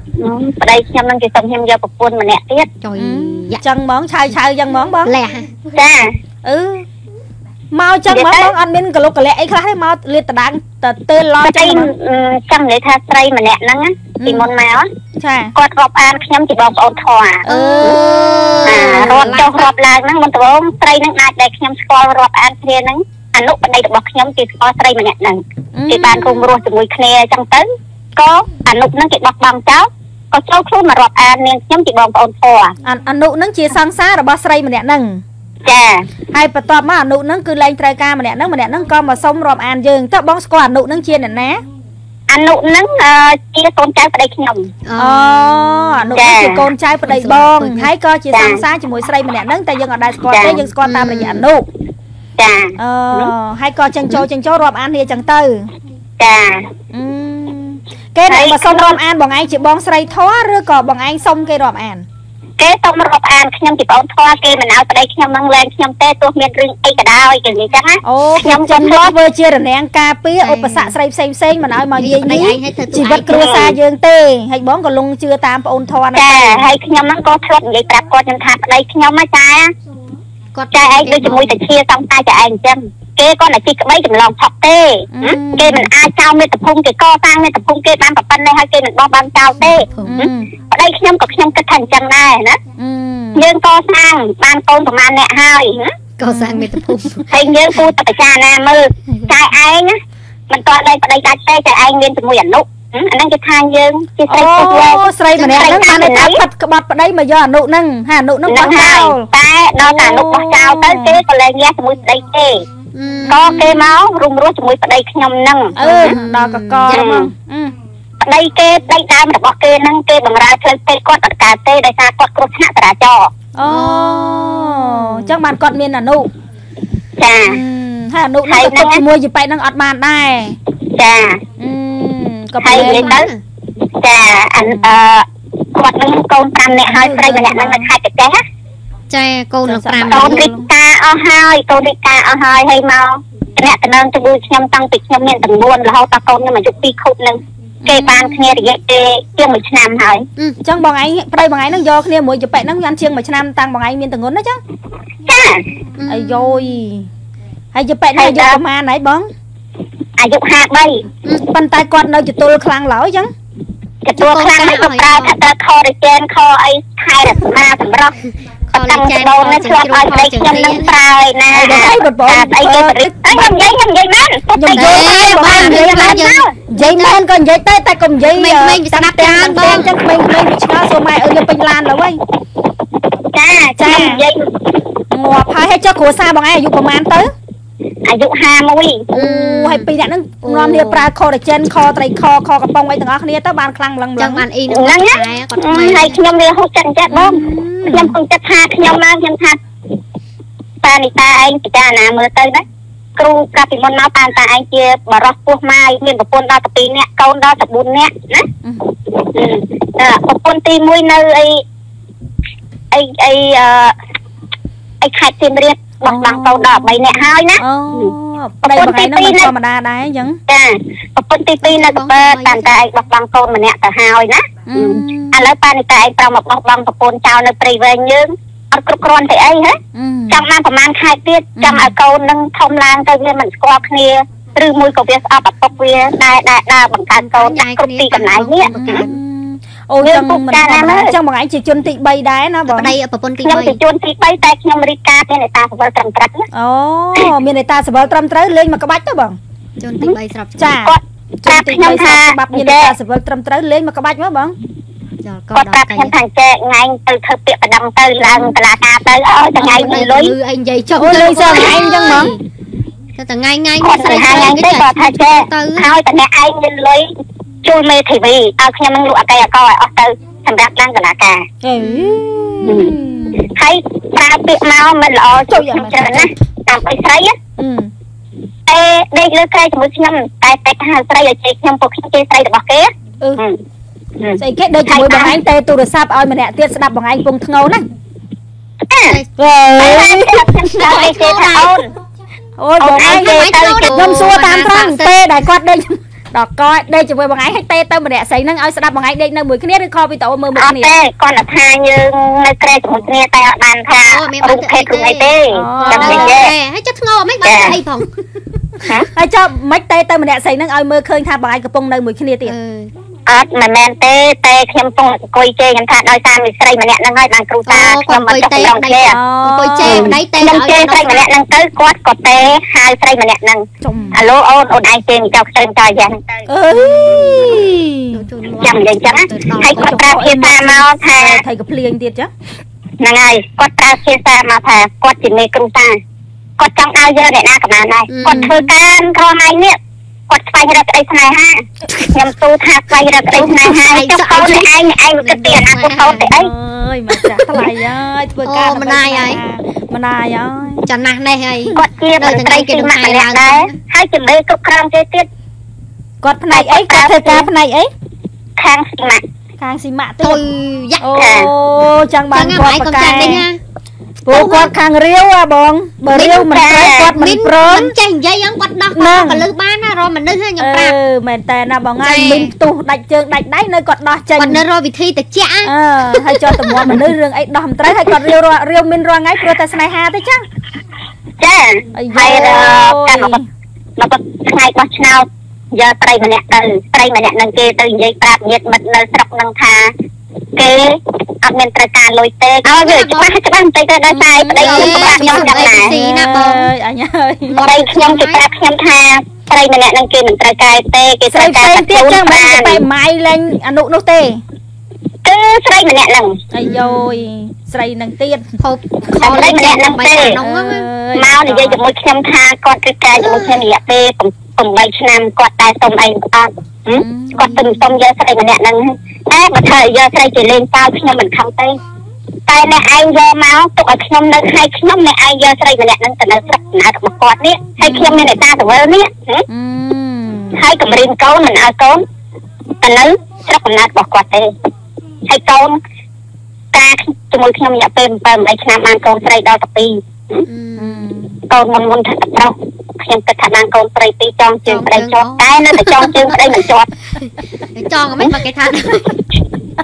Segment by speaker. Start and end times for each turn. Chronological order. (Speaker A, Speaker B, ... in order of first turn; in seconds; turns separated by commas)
Speaker A: 0.2-2.7, Speaker B: 2.8-3.6, Speaker C: 3.0-5.1, Speaker B: 5.0-5.6, Speaker A: 5.7-6.2, Speaker C: 6.4-6.8, Speaker C: 7.7-11.9, Speaker A: 8.1-8.5, Speaker A: 11.4-14.9, Speaker C: 14.2-14.5, Speaker C: 15.2-15.5, Speaker A: 15.6-18.0, Speaker C: 17.5-19.2, Speaker B: 17.5-19.7, Speaker A: 18.7-32.7, Speaker C: 25.8-26.5, Speaker C: 32.9-35.2, Speaker A: 35.6-36.1, Speaker C: 36.3-41.6, Speaker A: 42.3-44.7, Speaker B: 44.9-46.1, Speaker C: 45.0-51.7, Speaker A: 46.1-46.7, Speaker B: 47.0-47.9, Speaker A: 48.3-48.6, Speaker A: 50.3-50.6, Speaker B: 50.8-51.5, Speaker A: 52.4-53.3, Speaker C: 52.8-55.7, Speaker A: 56.2-56.6, Speaker C: 56.9-62.0, Speaker A: 58.3-59.0, Speaker A: 62.6-69.1, Speaker C: 68.0-76.7, Speaker B: 70.4-71.0, Speaker B: 72.0-73.7, Speaker A: 73.3-73.8, Speaker A: 76.1-79.7, Speaker B: 80.5-81.6, Speaker A: 80.7-92.6, Speaker C: 85.1-85.9, Speaker B: 89.8-90.2, Speaker C: 90.0-90.5, Speaker C: 92.8-93.5, Speaker A: 93.3-95.9, Speaker B: 96.2-97.2, Speaker C: 96.2-96.8, Speaker A: 97.3-100.0, Speaker A: 100.5-106.4, Speaker C: 104.3-109.3, Speaker A: 108.5-112.6, Speaker C: 109.8-111.2, Speaker B: 112.9-113.8, Speaker C: 113.2-113.8, Speaker A: 113.3-115.8, Speaker B: 115.8-117.0, Speaker C: 115.8-117.7, Speaker A: 116.9-117.3, Speaker A: 118.2-123.3, Speaker C: 123.5-126.3, Speaker B: 123.7-125.3, Speaker A: 127.2-127.6, Speaker C: 127.5-130.6, Speaker A: 128.5-129.0, Speaker A: 131.0-131.4, Speaker C: 131.6-133.2, Speaker A: 132.6-133.3, Speaker B: 132.7-133.4, Speaker A: 134.0-138.4, Speaker C: 136.9-137.9, Speaker B: 139.1-140.5, Speaker C: 139.7-140.7, Speaker A: 140.1-150.3, Speaker C: 147.8-148.4, Speaker C: 150.6-154.6, Speaker A: 155.3-155.6, Speaker B: 156.0-156.8, Speaker C: 156.1-157.1, Speaker C: 157.7-159.3, Speaker A: 158.1-158.6, Speaker A: 160.2-161.0, Speaker C: 161.5-163.3, Speaker A: 164.0-168.2, Speaker B: 164.1-165.3, Speaker B: 168.7-170.9, Speaker A: 168.7-176.6, Speaker C: 171.5-173.6, Speaker C: 174.6-182.2, Speaker B: 174.8-177.2, Speaker B: 178.3-180.0, Speaker A: 183.3-184.6, Speaker C: 183.8-184.2, Speaker C: 185.1-187.3, Speaker A: 188.1-189.1, Speaker C: 189.1-194.4, Speaker B: 189.1-189.9, Speaker B: 190.4-191.1, Speaker B: 194.2-196.2, Speaker A: 194.7-199.6, Speaker B: 197.1-198.2, Speaker A: 200.8-202.6, Speaker A: 203.2-208.5, Speaker A: 209.3-211.6, Speaker A: 212.9-213.9, Speaker A: 215.0-218.1, Speaker C: 216.1-216.8, Speaker C: 217.6-220.4, Speaker A: 218.6-219.5, Speaker A: 220.5-229.8, Speaker B: 221.6-222.8, Speaker C: 224.7-225.4, Speaker C: 229.9-230.4, Speaker A: 230.3-239.0, Speaker C: 231.6-231.9, Speaker B: 237.1-239.2, Speaker C: 238.7-242.9, Speaker A: 240.0-241.1, Speaker B: 242.7-243.8, Speaker A: 243.4-246.5, Speaker C: 246.5-249.4, Speaker B: 249.8-250.6, Speaker C: 250.0-254.6, Speaker A: 250.8-252.9, Speaker B: 255.2-256.1, Speaker A: 255.6-260.3, Speaker B: 259.6-262.4, Speaker C: 260.9-262.3, Speaker B: 263.2-265.9, Speaker A: 263.8-267.1, Speaker A: 267.6-271.4, Speaker C: 271.6-273.5, Speaker B: 271.9-272.2, Speaker A: 272.6-277.4, Speaker C: 275.5-276.3, Speaker C: 277.6-277.9, Speaker A: 278.7-283.6, Speaker A: 284.2-285.4, Speaker C: 284.4-287.9, Speaker A: 288.9-289.2, Speaker C: 289.4-290.8, Speaker A: 289.8-291.9, Speaker B: 290.8-291.8, Speaker C: 292.6-300.9, Speaker A: 292.8-294.0, Speaker B: 293.0-295.1, Speaker A: 300.6-306.5, Speaker B: 304.0-308.1, Speaker C: 305.5-306.4, Speaker A: 307.4-307.8, Speaker C: 309.1-312.6, Speaker B: 312.4-312.9, Speaker A: 313.3-319.2, Speaker B: 317.7-321.3, Speaker C: 319.1-320.2, Speaker A: 319.8-326.2, Speaker C: 323.8-324.2, Speaker C: 326.5-328.2, Speaker B: 326.8-330.0, Speaker A: 328.6-331.4, Speaker C: 329.7-332.3, Speaker A: 333.0-336.0, Speaker A: 336.6-339.8, Speaker B: 338.1-338.5, Speaker C: 338.3-338.7, Speaker A: 340.3-346.5, Speaker B: 343.3-346.3, Speaker C: 346.4-350.9, Speaker B: 348.4-349.4, Speaker B: 350.9-353.8, Speaker A: 351.7-355.3, Speaker C: 356.2-357.9, Speaker A: 356.5-357.5, Speaker A: 358.6-359.2, Speaker C: 359.6-360.4, Speaker B: 360.2-361.1, Speaker C: 361.0-363.5, Speaker A: 361.2-361.5, Speaker B: 362.3-363.6, Speaker C: 364.3-367.9, Speaker B: 364.3-364.7, Speaker B: 366.1-366.5, Speaker A: 366.4-367.1, Speaker B: 367.1-371.0, Speaker C: 368.9-369.5, Speaker C: 370.6-374.6, Speaker B: 372.0-372.5, Speaker B: 374.4-377.0, Speaker C: 375.6-380.4, Speaker A: 381.4-383.4, Speaker C: 381.9-383.5, Speaker A: 384.0-389.9, Speaker A: 390.6-395.9, Speaker B: 392.7-393.3, Speaker C: 394.1-397.6, Speaker B: 394.6-396.7, Speaker B: 397.5-398.4, Speaker A: 397.6-402.8, Speaker C: 401.3-404.4, Speaker A: 405.2-406.4, Speaker C: 406.5-408.5, Speaker B: 406.6-407.2, Speaker B: 408.6-410.9, Speaker A: 409.2-410.4, Speaker C: 410.4-411.8, Speaker A: 411.1-421.8, Speaker B: 413.2-413.7, Speaker C: 417.0-417.8, Speaker A: 422.5-429.4, Speaker C: 427.8-428.3, Speaker C: 429.5-430.6, Speaker A: 430.6-432.0, Speaker A: 432.8-434.5, Speaker A: 435.3-435.8, Speaker A: 436.7-440.5, Speaker B: 440.5-441.0, Speaker C: 440.8-441.4, Speaker A: 441.5-446.9, Speaker B: 444.7-446.7, Speaker B: 447.8-449.2